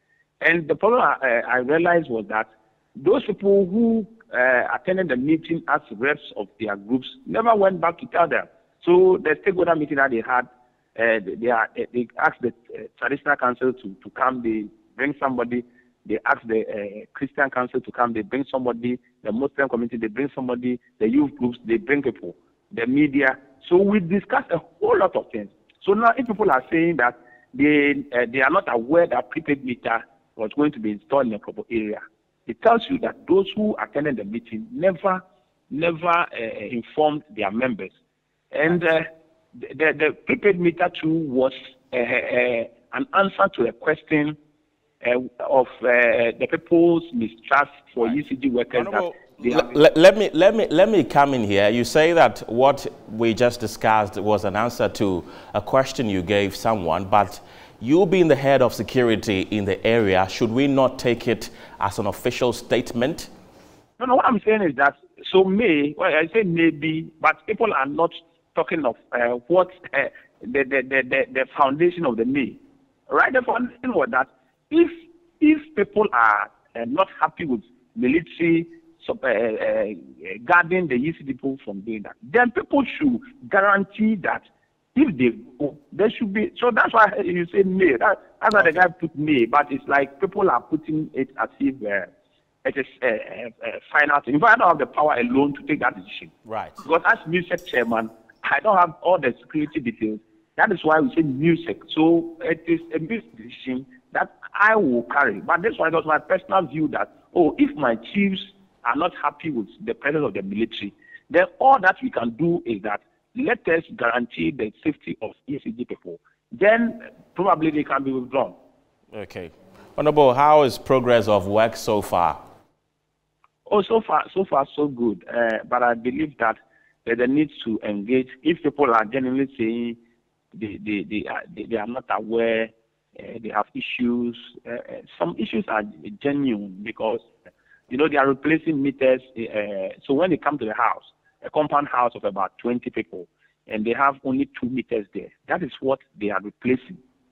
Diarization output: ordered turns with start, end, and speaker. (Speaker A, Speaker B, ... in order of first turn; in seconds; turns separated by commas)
Speaker A: 0.4-37.9, Speaker A: 38.5-39.1, Speaker A: 39.6-44.4, Speaker A: 45.0-49.7, Speaker B: 48.7-63.3, Speaker A: 64.0-72.6, Speaker A: 73.1-92.1, Speaker B: 88.5-88.9, Speaker A: 92.7-118.6, Speaker B: 96.5-96.8, Speaker B: 119.1-122.4, Speaker A: 123.7-130.0, Speaker A: 130.6-137.3, Speaker A: 137.9-147.0